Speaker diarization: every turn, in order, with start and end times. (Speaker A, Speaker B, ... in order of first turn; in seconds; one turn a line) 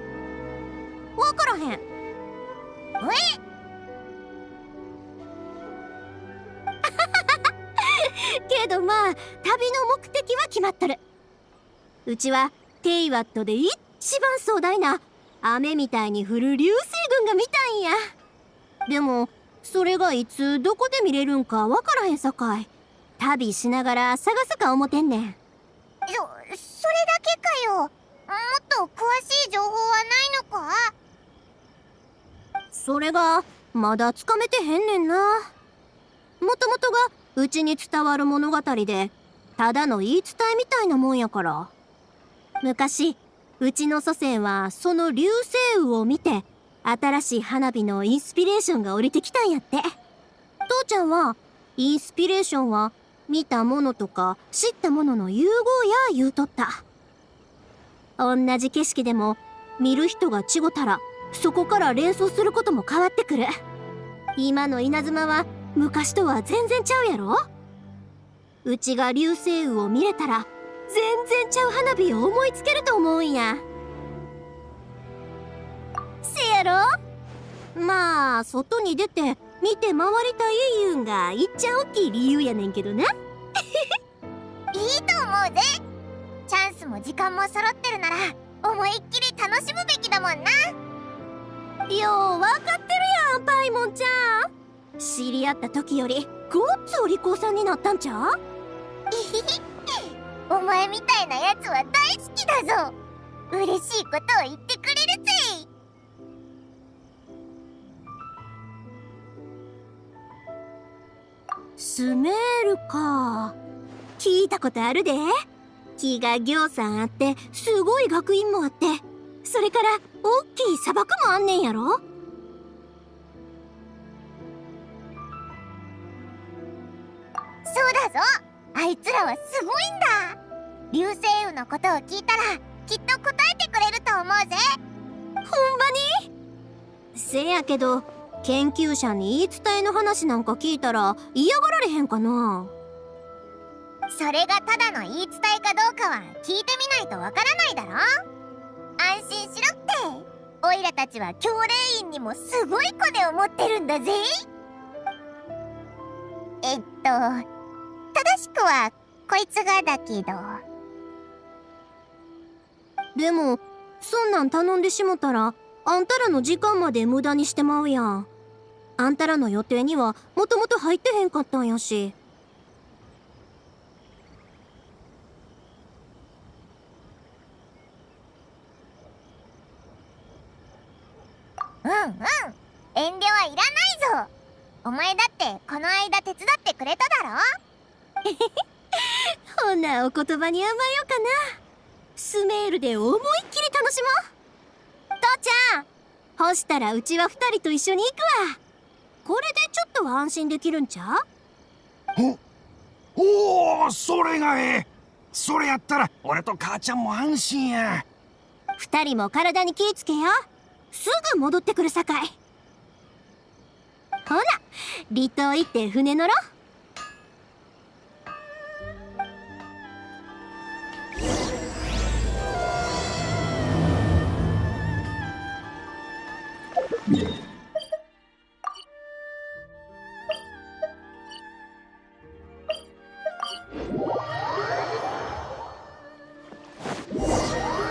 Speaker A: 1.2-1.8
Speaker B: 3.0-3.4
Speaker A: 6.9-11.0
Speaker A: 12.1-18.0
Speaker A: 18.9-25.4
Speaker B: 26.1-30.9
Speaker A: 32.7-35.5
Speaker A: 36.4-41.7
Speaker A: 42.6-49.8
Speaker A: 50.7-56.8
Speaker A: 58.2-63.5
Speaker A: 64.4-67.4
Speaker A: 68.7-73.6
Speaker A: 76.2-76.9
Speaker A: 77.8-83.1
Speaker A: 83.6-83.9
Speaker B: 84.7-85.8
Speaker B: 86.5-90.6
Speaker A: 91.9-94.5
Speaker A: 95.0-98.3
Speaker B: 99.1-103.0
Speaker B: 103.5-105.7
Speaker A: 111.8-113.5
Speaker A: 114.2-115.3
Speaker A: 116.0-122.0
Speaker B: 127.7-130.4
Speaker B: 130.9-134.8
Speaker A: 135.4-136.2
Speaker A: 137.2-142.7
Speaker B: 144.1-148.1
Speaker B: 149.0-154.3
Speaker B: 156.6-157.4
Speaker B: 158.1-160.6
Speaker A: 163.2-168.3
Speaker A: 169.0-172.2
Speaker B: 181.8-184.3
Speaker B: 184.8-187.4
Speaker A: 188.3-191.4
Speaker A: 192.2-194.2
Speaker A: 195.2-198.6
Speaker A: 199.2-201.2
Speaker C: 203.2-208.1
Speaker A: 208.8-212.4
Speaker A: 214.3-214.6
Speaker A: 215.1-216.3